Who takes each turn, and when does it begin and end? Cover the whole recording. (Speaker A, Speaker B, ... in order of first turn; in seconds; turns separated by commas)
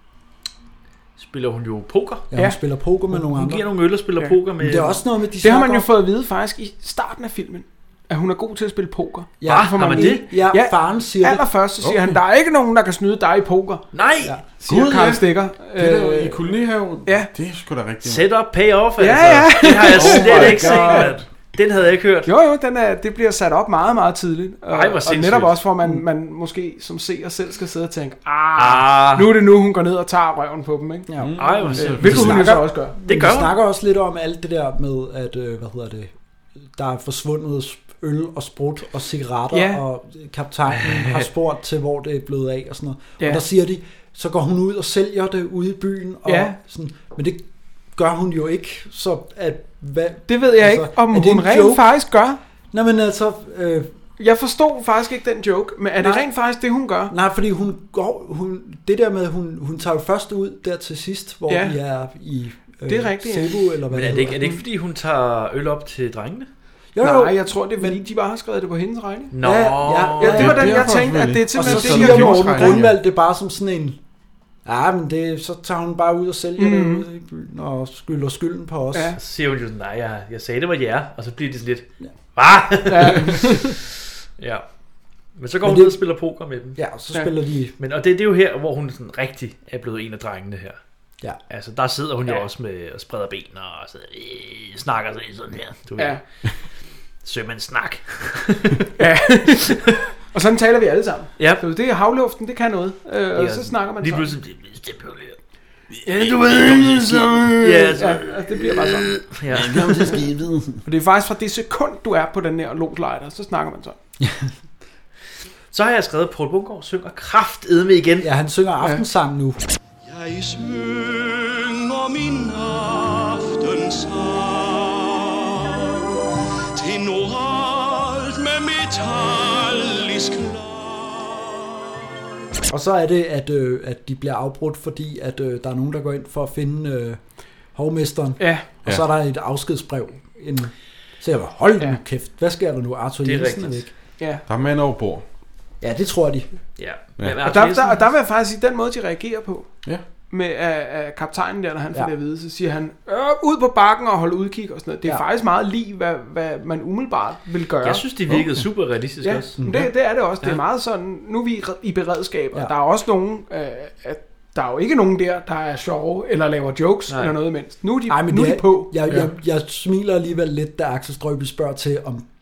Speaker A: 1.2-2.3, Speaker B: 2.3-3.6, Speaker A: 3.1-5.0, Speaker B: 4.6-5.9, Speaker C: 5.4-13.9, Speaker B: 9.4-11.5, Speaker A: 9.5-10.2, Speaker A: 13.9-14.3, Speaker C: 14.6-16.4, Speaker D: 14.7-18.2, Speaker C: 17.1-17.3, Speaker A: 18.0-22.3, Speaker C: 19.0-21.1, Speaker D: 20.0-20.9, Speaker B: 20.3-21.1, Speaker C: 22.3-31.1, Speaker A: 24.7-25.6, Speaker A: 28.6-29.4, Speaker B: 31.1-36.1, Speaker D: 31.2-32.4, Speaker A: 31.4-33.5, Speaker C: 31.8-33.0, Speaker B: 36.7-51.9, Speaker C: 39.5-39.8, Speaker A: 41.0-41.2, Speaker C: 46.3-46.5, Speaker C: 50.3-52.4, Speaker B: 52.7-53.9, Speaker C: 54.2-57.1, Speaker B: 56.0-56.3, Speaker B: 57.1-64.4, Speaker C: 61.5-61.8, Speaker C: 62.9-63.6, Speaker A: 63.9-66.5, Speaker B: 67.0-68.0, Speaker C: 67.0-69.3, Speaker A: 69.3-70.4, Speaker B: 69.4-71.0, Speaker C: 70.2-72.8, Speaker D: 70.3-73.0, Speaker B: 71.5-74.0, Speaker B: 74.7-79.2, Speaker C: 76.6-77.1, Speaker C: 78.9-79.2, Speaker A: 79.2-83.8, Speaker C: 82.9-83.8, Speaker A: 84.4-84.7, Speaker A: 85.4-86.8, Speaker B: 85.6-86.0, Speaker B: 86.8-87.8, Speaker A: 87.8-90.8, Speaker A: 91.5-96.2, Speaker A: 97.2-98.9, Speaker C: 99.0-104.3, Speaker A: 101.4-101.6, Speaker A: 103.4-105.4, Speaker A: 106.1-110.2, Speaker B: 106.5-108.0, Speaker C: 107.9-109.1, Speaker B: 109.5-110.8, Speaker C: 110.8-114.0, Speaker B: 114.2-114.5, Speaker A: 115.7-118.3, Speaker B: 118.2-119.6, Speaker E: 120.2-124.6, Speaker E: 126.8-130.6, Speaker B: 132.7-137.2, Speaker B: 137.7-143.9, Speaker C: 138.4-138.7, Speaker A: 143.2-143.9, Speaker C: 144.2-144.4, Speaker D: 144.5-145.2, Speaker B: 145.8-146.5, Speaker A: 146.8-148.1, Speaker C: 147.4-149.8, Speaker C: 150.3-158.1, Speaker A: 157.8-159.7, Speaker C: 159.2-169.3, Speaker B: 159.6-159.9, Speaker A: 167.1-167.4, Speaker B: 168.1-172.3